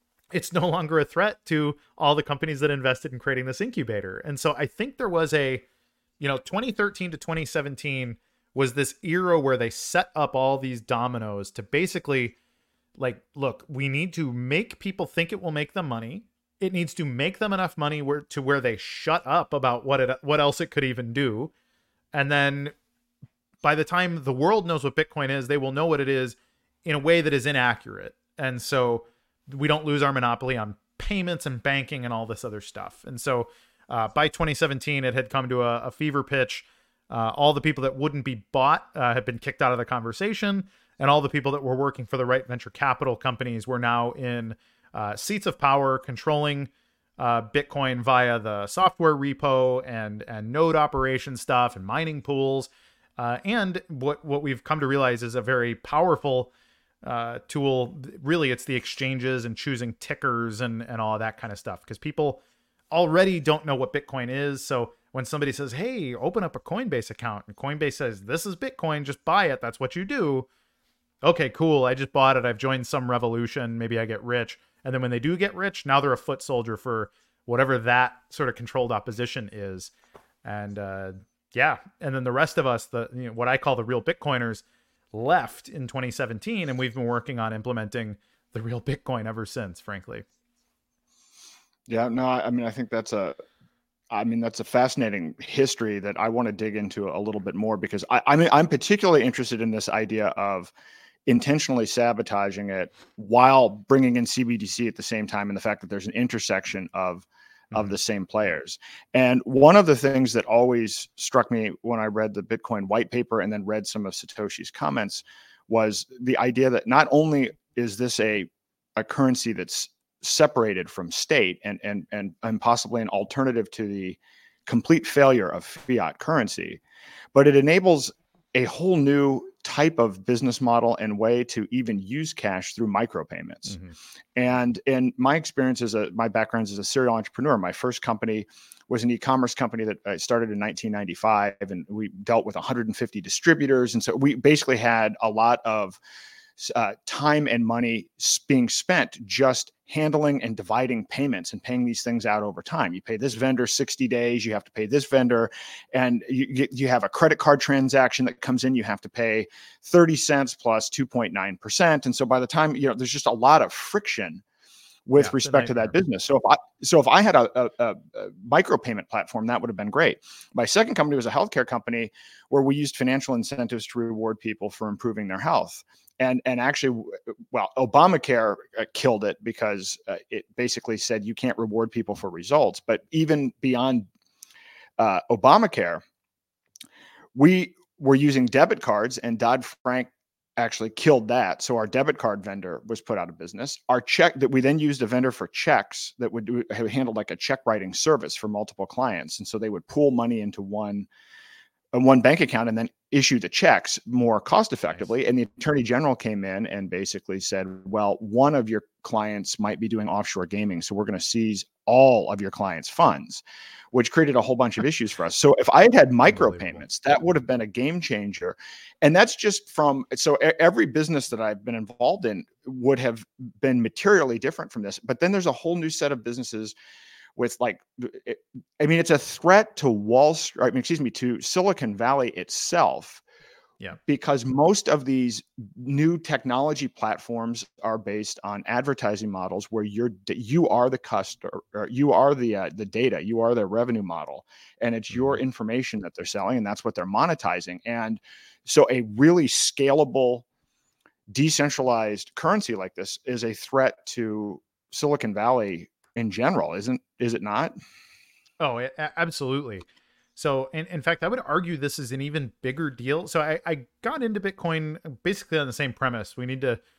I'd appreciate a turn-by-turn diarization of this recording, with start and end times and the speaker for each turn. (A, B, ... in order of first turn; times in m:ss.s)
0:00.3-0:05.6 A
0:06.2-0:12.4 A
0:13.0-0:21.5 A
0:22.1-0:22.8 A
0:23.6-0:56.5 A
0:57.0-1:10.5 A
1:11.2-1:19.9 A
1:20.4-1:30.2 A
1:31.9-1:33.4 B
1:34.1-1:40.7 B
1:41.3-2:06.8 B
2:07.4-2:13.8 B
2:13.7-2:14.0 A
2:14.4-2:26.0 B
2:26.6-2:44.4 B
2:45.1-3:04.1 B
2:45.2-2:46.0 A
3:05.0-3:06.0 B
3:07.4-3:21.1 B
3:21.9-3:46.7 B
3:36.3-3:36.8 A
3:47.4-3:53.2 B
3:54.0-4:10.4 B
4:05.1-4:05.4 A
4:11.3-4:17.8 B
4:18.6-4:19.8 A
4:20.4-4:26.8 A